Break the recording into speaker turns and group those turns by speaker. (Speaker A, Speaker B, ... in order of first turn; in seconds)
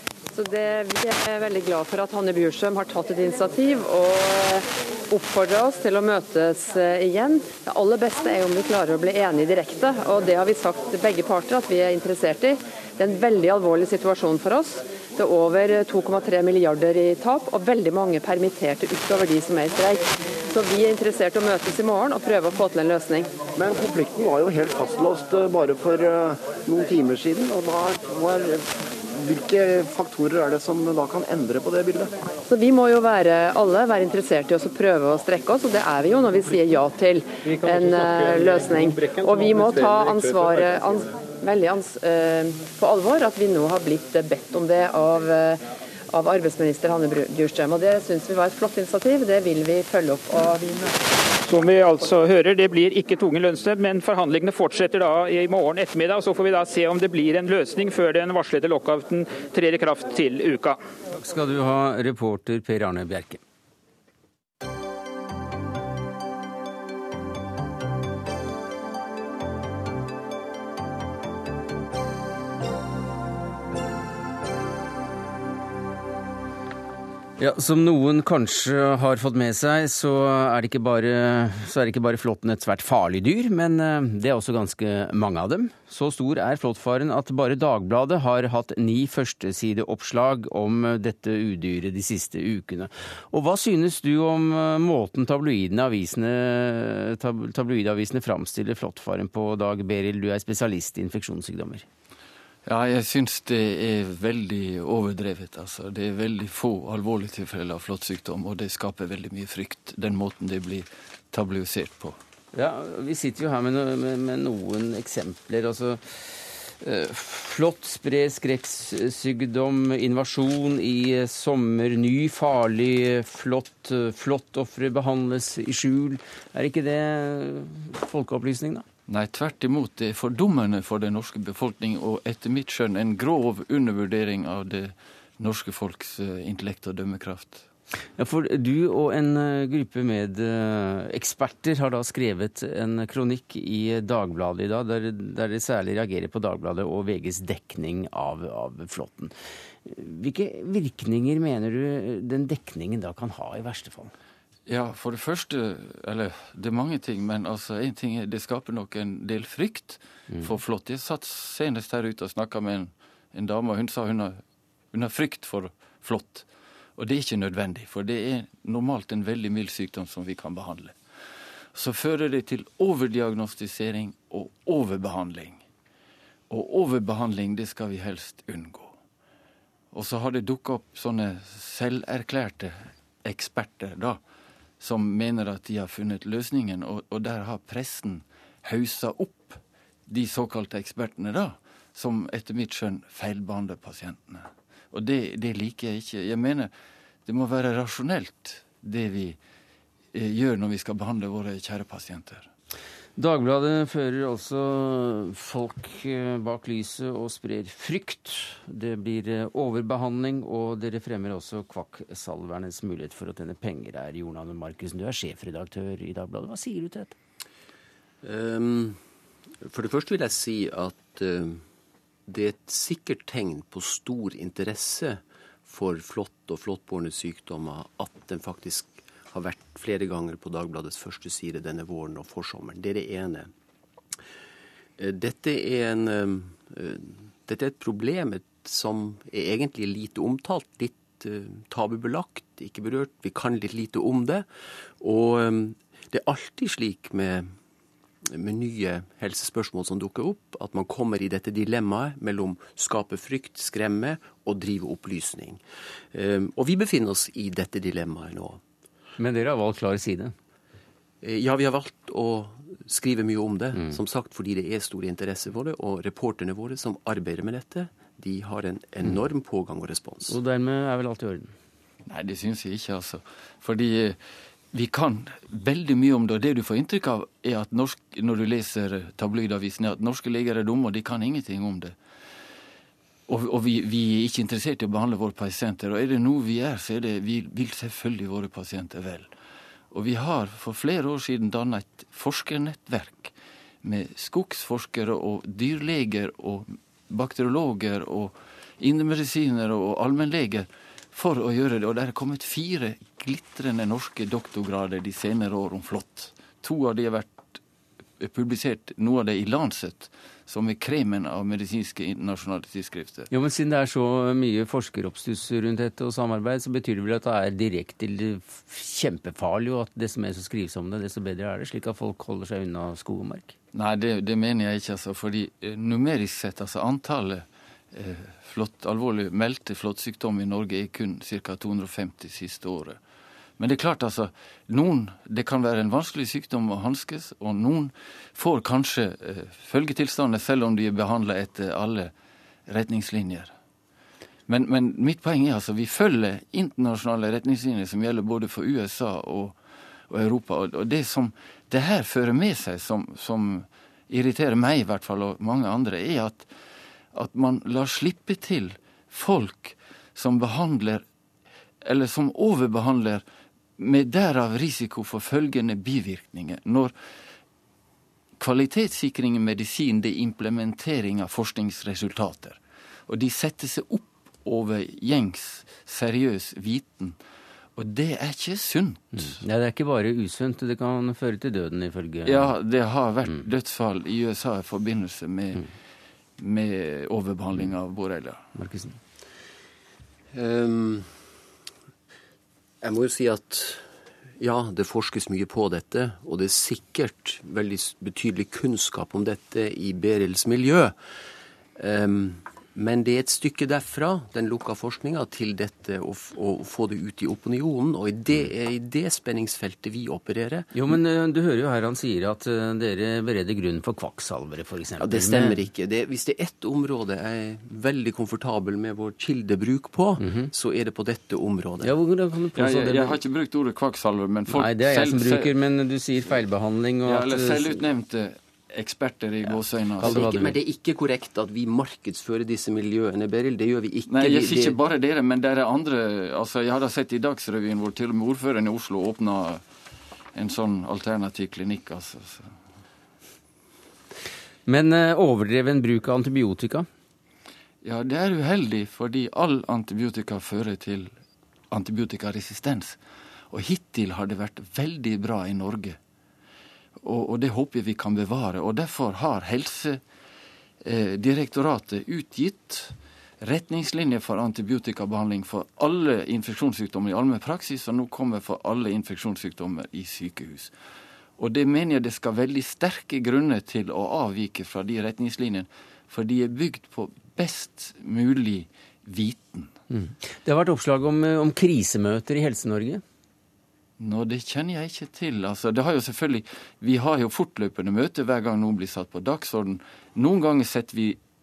Speaker A: 0.3-23.3, 32.5-50.9
Speaker B: 23.6-32.1, 37.5-40.9
Speaker C: 51.4-60.8
Speaker D: 61.1-63.4, 77.4-101.8, 112.5-128.8, 138.2-149.3, 149.8-154.1, 160.3-160.6, 203.2-217.1, 259.2-260.3, 263.7-264.0, 270.3-271.5, 313.3-323.5, 379.2-382.5, 388.6-389.0, 410.7-415.6, 420.2-420.5, 421.8-423.2, 424.5-427.8, 430.0-430.6, 444.6-446.9, 479.9-483.0
Speaker E: 102.7-112.2, 129.1-137.7, 154.7-171.0, 171.7-175.6, 176.5-178.9, 179.9-184.2, 184.8-196.7, 197.2-199.4, 200.1-202.5, 272.1-274.2, 274.7-281.9, 283.3-289.3, 289.9-307.6, 308.2-313.3, 323.7-333.0, 333.6-342.1, 342.7-343.5, 344.5-356.5, 357.1-361.0, 361.8-363.2, 363.8-366.9, 368.4-377.2, 377.8-379.4, 382.2-385.7, 386.4-388.4, 422.5-425.5, 427.0-430.2, 434.1-439.6, 440.3-442.5, 447.8-451.1, 451.7-453.0, 453.5-456.0, 457.0-460.0, 460.8-470.7, 471.4-479.7, 484.0-491.2
Speaker F: 218.2-219.0, 219.6-221.6, 222.3-233.5, 235.0-247.5, 248.2-258.6, 261.2-270.3, 390.3-391.2, 392.8-400.9, 401.8-410.7, 415.0-421.9, 430.0-434.8